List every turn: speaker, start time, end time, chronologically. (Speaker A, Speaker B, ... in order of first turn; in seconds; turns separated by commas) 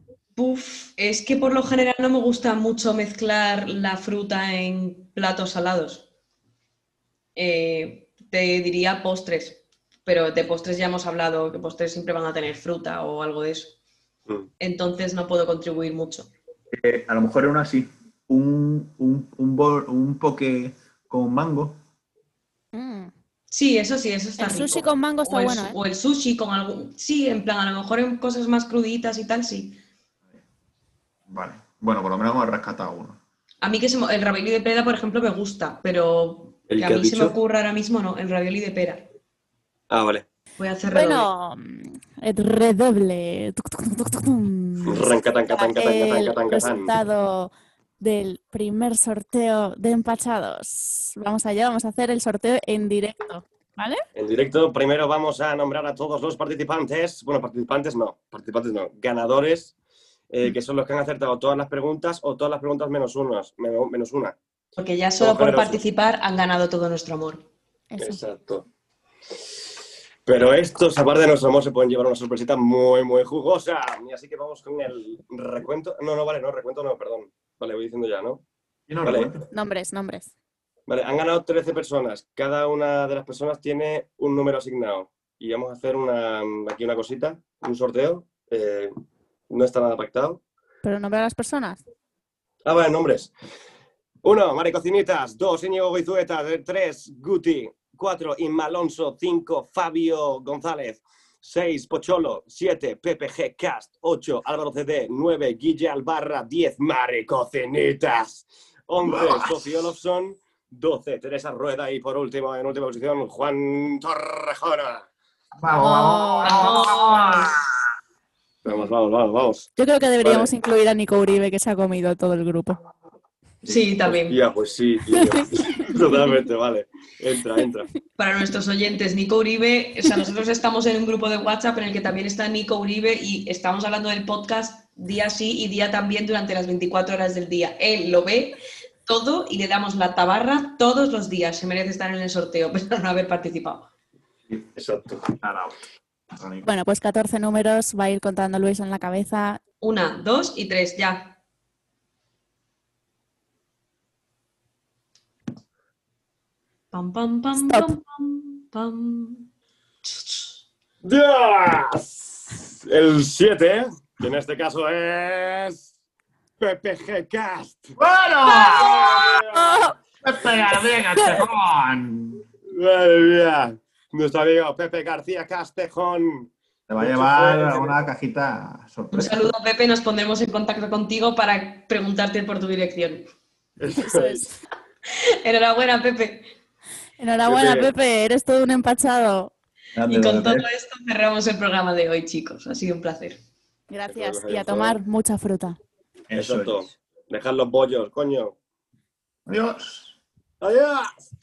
Speaker A: 0.3-6.0, Speaker A: 7.3-13.8, Speaker A: 14.6-16.3, Speaker B: 16.7-21.8, Speaker C: 22.7-23.1, Speaker A: 23.5-29.8, Speaker C: 24.4-25.8, Speaker B: 31.3-33.2, Speaker A: 33.6-39.0, Speaker D: 36.7-37.3, Speaker D: 39.9-40.2, Speaker A: 40.6-41.3, Speaker C: 40.9-54.0, Speaker D: 44.8-46.9, Speaker D: 54.1-59.7, Speaker D: 60.3-64.4, Speaker A: 64.8-67.5, Speaker D: 65.2-65.8, Speaker C: 67.9-68.2, Speaker D: 68.0-68.7, Speaker D: 70.2-78.4, Speaker B: 78.9-79.5, Speaker D: 79.0-79.3, Speaker C: 79.5-80.3, Speaker D: 80.9-88.9, Speaker D: 89.5-90.4, Speaker C: 90.8-91.8, Speaker D: 92.6-93.3, Speaker D: 94.2-115.0, Speaker B: 109.0-109.7, Speaker B: 115.6-117.6, Speaker A: 115.8-117.5, Speaker C: 115.8-116.7, Speaker D: 118.6-119.7, Speaker C: 119.8-122.8, Speaker D: 120.2-120.5, Speaker A: 123.6-124.4, Speaker D: 124.0-127.9, Speaker C: 125.1-126.3, Speaker A: 128.2-143.9, Speaker B: 144.5-146.7, Speaker D: 144.8-145.3, Speaker C: 146.6-149.6, Speaker A: 149.8-151.3, Speaker A: 156.9-159.5, Speaker C: 157.5-158.0, Speaker A: 160.0-160.5, Speaker D: 161.0-165.9, Speaker D: 166.6-168.0, Speaker B: 168.0-169.4, Speaker D: 168.8-169.7, Speaker C: 169.5-169.9, Speaker B: 170.2-172.4, Speaker D: 172.7-178.0, Speaker B: 176.9-179.5, Speaker A: 179.1-183.3, Speaker D: 183.8-184.4, Speaker C: 183.9-184.6, Speaker A: 185.1-186.5, Speaker C: 187.2-189.5, Speaker D: 187.4-187.9, Speaker B: 189.9-190.7, Speaker A: 190.1-193.4, Speaker C: 193.9-195.8, Speaker D: 194.1-195.0, Speaker B: 196.3-196.8, Speaker D: 196.3-198.6, Speaker B: 199.4-200.2, Speaker D: 200.6-201.2